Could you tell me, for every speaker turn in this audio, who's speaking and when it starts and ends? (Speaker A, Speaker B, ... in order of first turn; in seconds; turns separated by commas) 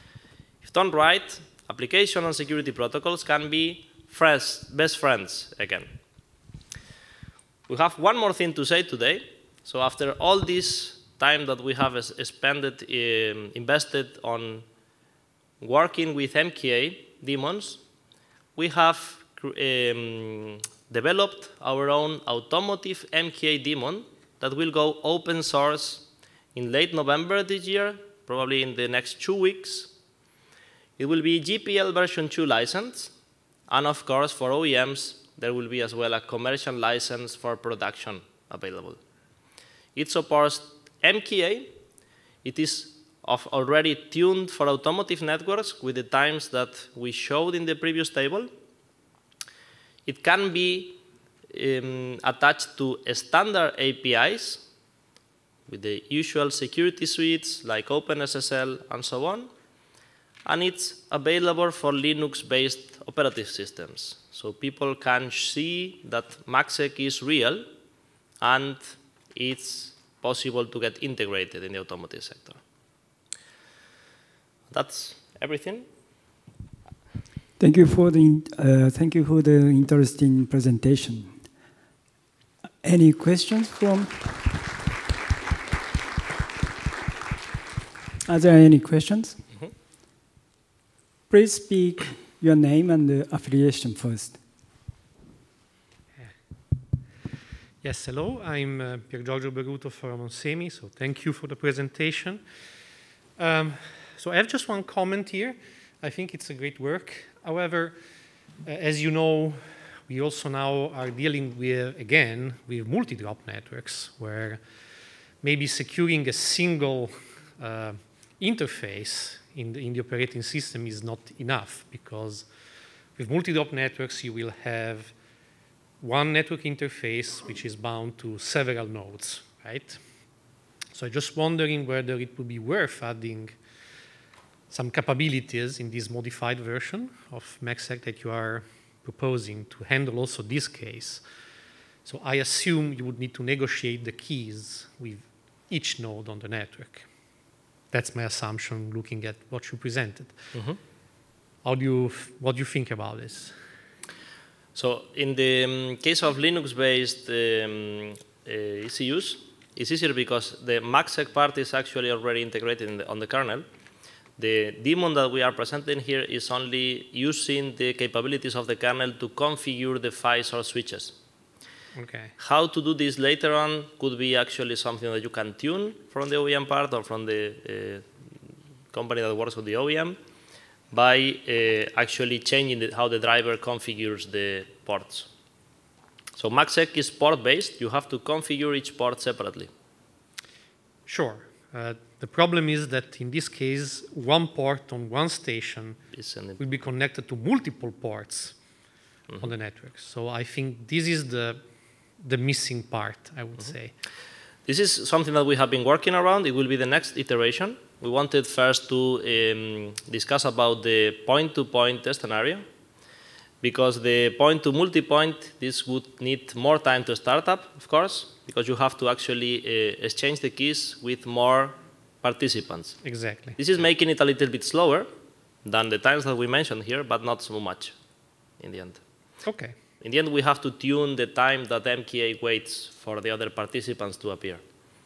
Speaker A: 0.6-6.0, Speaker A: 7.7-14.7, Speaker A: 15.6-17.8, Speaker A: 18.6-29.9, Speaker A: 31.0-33.1, Speaker A: 33.7-39.0, Speaker A: 40.0-41.7, Speaker A: 42.4-48.5, Speaker A: 50.1-51.0, Speaker A: 51.5-54.6, Speaker A: 55.7-59.5, Speaker A: 60.5-67.7, Speaker A: 68.4-72.6, Speaker A: 74.7-75.9, Speaker B: 77.6-81.4, Speaker B: 82.8-84.6, Speaker B: 88.3-89.4, Speaker B: 91.3-94.4, Speaker C: 97.8-102.4, Speaker C: 103.4-108.0, Speaker C: 108.6-114.6, Speaker C: 115.4-122.5, Speaker C: 123.2-125.1, Speaker C: 126.0-130.0, Speaker C: 130.9-133.6, Speaker C: 134.7-141.2, Speaker C: 142.1-147.1, Speaker C: 147.9-150.5, Speaker A: 150.5-150.8, Speaker C: 151.6-153.6, Speaker A: 154.8-163.7, Speaker A: 164.4-171.2, Speaker C: 171.9-172.3, Speaker A: 172.4-178.1, Speaker A: 178.9-180.2, Speaker A: 180.9-185.3, Speaker A: 186.4-189.7, Speaker C: 191.1-196.0, Speaker A: 196.1-196.6, Speaker C: 196.6-198.6, Speaker C: 199.4-201.6, Speaker C: 202.2-203.9, Speaker A: 204.7-212.7, Speaker A: 213.6-223.0, Speaker C: 223.0-223.6, Speaker A: 223.6-225.1, Speaker A: 225.7-228.0, Speaker A: 228.6-229.0, Speaker C: 229.4-229.8, Speaker A: 230.0-234.6